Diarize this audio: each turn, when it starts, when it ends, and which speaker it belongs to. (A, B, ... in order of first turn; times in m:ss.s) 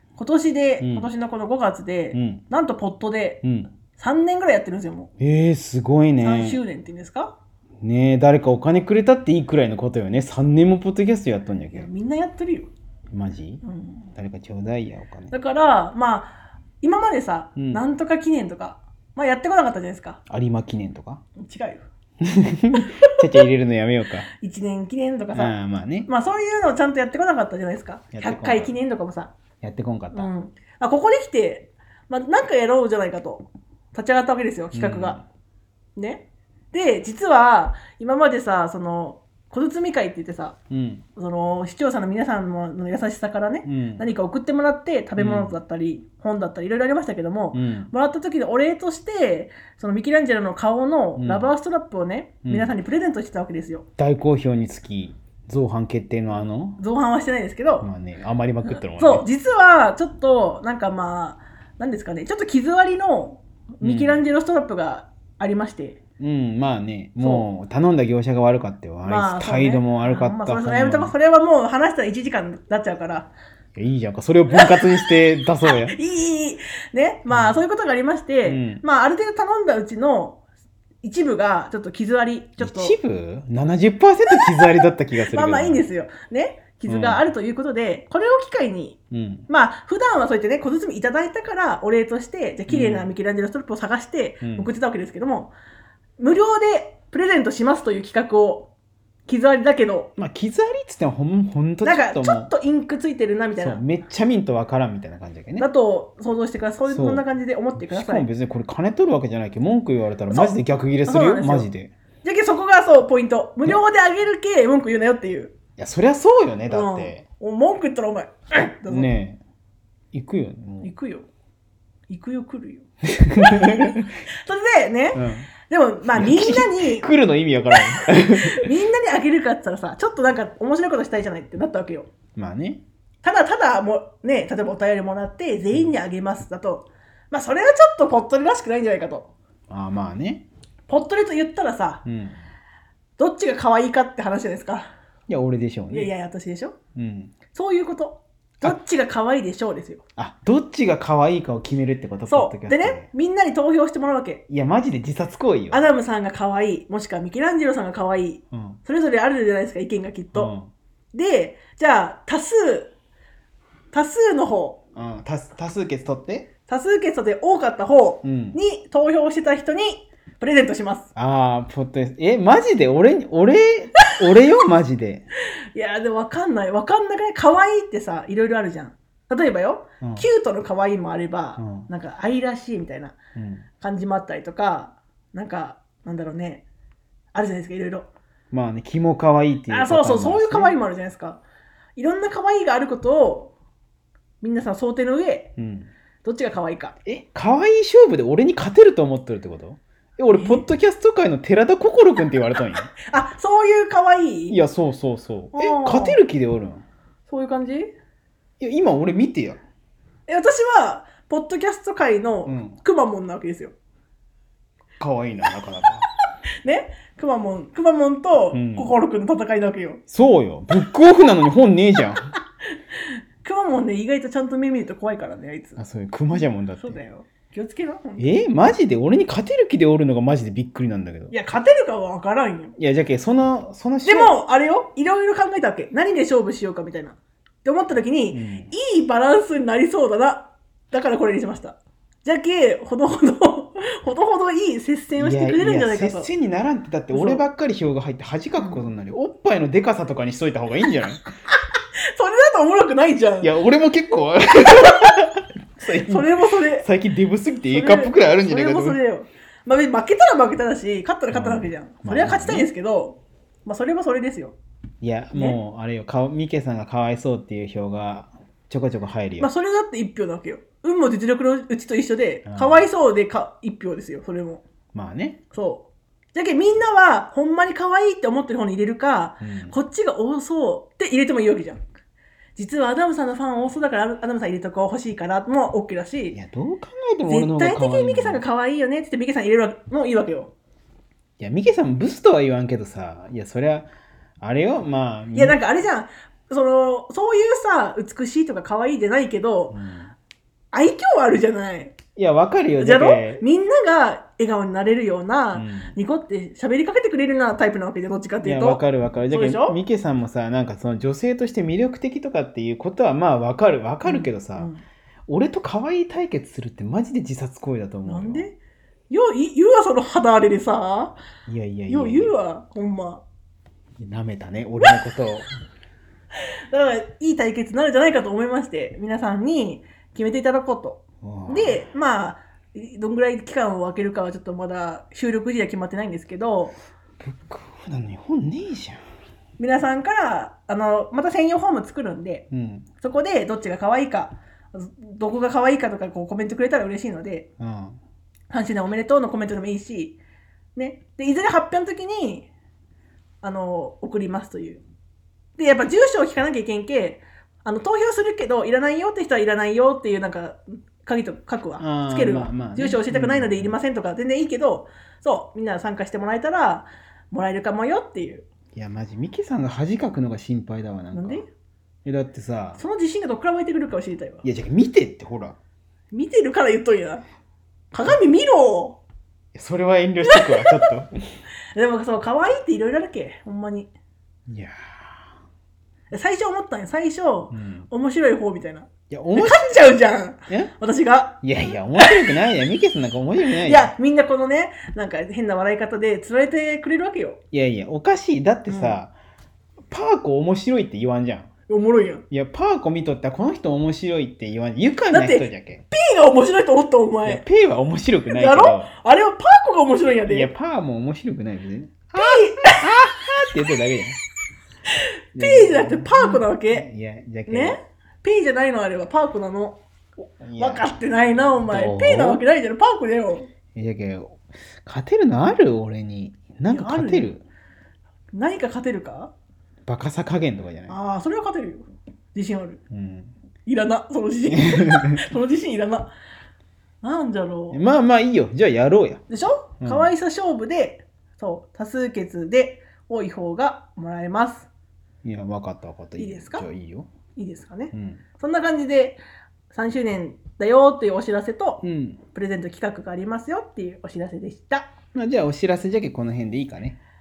0:00.2-0:03.4 A
0:00.8-0:01.1 B
0:02.1-0:02.4 B
0:03.4-0:03.7 B
0:03.9-0:05.1 A
0:05.2-0:06.6 B
0:06.2-0:07.4 A
0:07.8-0:11.9 B
0:11.7-0:12.7 A
0:13.1-0:13.6 B
0:13.6-0:14.1 A
0:14.2-0:15.3 B
0:15.3-0:20.2 A
0:17.6-0:17.8 B
0:20.3-0:21.2 B
0:21.4-0:21.8 A
0:22.2-0:24.3 B
0:22.8-0:23.1 A
0:24.4-0:25.5 A
0:25.3-0:26.1 B
0:26.1-0:29.3 A
0:28.1-0:28.8 B
0:29.6-0:30.3 B
0:30.1-0:35.2 A
0:34.7-0:35.2 B
0:36.0-0:40.6 A
0:40.7-0:41.0 B
0:41.1-0:53.8 A
0:43.6-0:44.1 B
0:45.2-0:45.6 B
0:47.5-0:47.9 B
0:51.2-0:51.5 B
0:52.4-0:52.7 B
0:54.0-0:56.8 B
0:56.8-0:57.9 A
0:57.8-0:59.3 B
0:58.6-1:06.0 A
1:03.8-1:04.2 B
1:06.2-1:11.1 B
1:07.2-1:07.4 A
1:09.0-1:13.3 A
1:13.8-1:16.0 B
1:14.5-1:20.4 A
1:17.3-1:17.6 B
1:18.4-1:18.8 B
1:21.0-1:22.9 A
1:22.6-1:25.8 B
1:25.2-1:35.5 A
1:26.8-1:27.3 B
1:29.1-1:29.5 B
1:32.7-1:33.1 B
1:34.4-1:34.7 B
1:36.2-1:38.7 A
1:39.3-1:40.1 A
1:40.2-1:42.5 B
1:41.8-1:43.8 A
1:43.6-1:45.7 B
1:45.6-1:48.3 A
1:46.8-1:47.2 B
1:47.8-1:51.9 B
1:50.3-1:51.7 A
1:52.2-1:55.5 A
1:55.8-1:57.2 B
1:56.7-1:59.1 A
1:58.9-1:59.4 B
2:00.1-2:00.9 B
2:00.8-2:01.3 A
2:02.1-2:07.0 A
2:03.1-2:04.0 B
2:05.1-2:05.5 B
2:06.1-2:08.7 B
2:07.7-2:12.1 A
2:12.4-2:12.8 B
2:13.2-2:19.3 A
2:19.7-2:20.4 B
2:20.9-2:22.0 A
2:22.0-2:22.4 B
2:23.2-2:24.9 A
2:25.3-2:26.1 B
2:25.9-2:26.8 A
2:26.9-2:27.3 B
2:27.5-2:30.0 A
2:30.2-2:33.1 B
2:32.3-2:34.4 A
2:34.5-2:35.8 B
2:35.7-2:40.5 A
2:38.5-2:38.8 B
2:40.3-2:40.7 B
2:41.1-2:42.9 A
2:43.9-2:44.8 A
2:44.9-2:46.5 B
2:46.7-2:51.1 A
2:48.2-2:48.6 B
2:51.2-2:55.2 B
2:55.7-3:03.2 A
3:00.0-3:00.2 B
3:01.6-3:01.9 B
3:03.4-3:03.6 B
3:03.8-3:06.6 A
3:07.3-3:08.1 A
3:08.5-3:10.8 B
3:09.7-3:11.4 A
3:12.0-3:13.5 A
3:14.4-3:15.5 A
3:15.6-3:15.9 B
3:16.2-3:16.9 A
3:17.0-3:22.9 B
3:20.3-3:20.6 A
3:23.0-3:24.6 A
3:24.5-3:26.8 B
3:25.5-3:26.2 A
3:27.3-3:27.9 A
3:28.6-3:29.6 B
3:30.3-3:33.7 A
3:32.4-3:32.8 B
3:35.0-3:36.0 B
3:36.6-3:40.0 A
3:38.5-3:38.9 B
3:40.1-3:42.3 B
3:42.3-3:45.8 A
3:45.8-3:47.0 B
3:46.8-3:48.3 A
3:48.2-3:51.3 B
3:51.3-3:52.7 A
3:52.8-3:54.3 B
3:54.0-4:06.3 A
3:58.3-3:58.7 B
4:05.2-4:11.2 B
4:07.1-4:07.4 A
4:08.6-4:08.9 A
4:12.1-4:13.5 A
4:13.4-4:19.0 B
4:16.0-4:16.8 A
4:17.7-4:24.6 A
4:21.3-4:22.7 B
4:25.0-4:29.5 B
4:29.4-4:34.6 A
4:32.4-4:32.9 B
4:34.9-4:35.4 B
4:35.5-4:41.8 A
4:39.4-4:39.7 B
4:42.6-4:46.4 A
4:46.3-4:48.4 B
4:47.3-4:50.5 A
4:51.4-4:53.9 B
4:54.4-4:55.6 B
4:55.3-4:59.8 A
4:59.7-5:00.1 B
5:00.7-5:02.0 A
5:02.2-5:03.4 B
5:02.8-5:09.8 A
5:05.5-5:06.0 B
5:08.4-5:14.7 B
5:14.0-5:14.8 A
5:15.3-5:18.4 B
5:18.0-5:18.6 A
5:19.1-5:21.2 A
5:21.5-5:22.3 B
5:21.9-5:23.2 A
5:24.0-5:25.5 B
5:26.7-5:36.7 A
5:31.2-5:31.8 B
5:37.2-5:39.0 B
5:39.6-5:42.4 A
5:42.5-5:42.9 B
5:43.0-5:47.5 A
5:47.6-5:48.0 B
5:48.5-5:50.2 A
5:50.7-5:52.5 A
5:53.4-5:54.8 A
5:55.6-6:08.4 A
6:01.8-6:03.7 B
6:08.7-6:11.4 B
6:11.1-6:11.5 A
6:12.0-6:12.8 B
6:12.8-6:14.4 A
6:14.4-6:15.6 B
6:16.1-6:17.2 A
6:17.9-6:19.0 A
6:19.5-6:21.1 B
6:20.2-6:20.7 A
6:21.7-6:23.9 A
6:24.5-6:24.7 B
6:26.1-6:31.4 A
6:27.5-6:27.9 B
6:29.1-6:30.0 B
6:30.5-6:30.7 B
6:31.4-6:33.9 B
6:33.6-6:37.4 A
6:37.5-6:39.1 B
6:38.7-6:39.0 A
6:39.9-6:41.5 B
6:41.7-6:42.2 A
6:42.3-6:45.8 B
6:45.1-6:47.4 A
6:47.2-6:48.9 B
6:48.3-6:50.5 A
6:50.3-6:54.2 B
6:52.2-6:52.8 A
6:55.3-6:56.9 A
6:55.3-6:57.8 B
6:57.5-6:59.8 A
7:00.4-7:00.9 B
7:00.6-7:03.5 A
7:01.7-7:02.4 B
7:03.7-7:07.4 B
7:06.7-7:07.3 A
7:08.3-7:09.3 A
7:09.8-7:11.0 B
7:10.9-7:12.8 A
7:12.9-7:13.3 B
7:13.6-7:16.1 A
7:14.7-7:15.2 B
7:17.0-7:17.8 A
7:17.7-7:19.2 B
7:19.3-7:24.7 A
7:19.8-7:20.1 B
7:25.2-7:27.1 B
7:26.2-7:26.6 A
7:27.4-7:34.9 A
7:27.9-7:28.2 B
7:31.8-7:32.2 B
7:35.1-7:37.0 B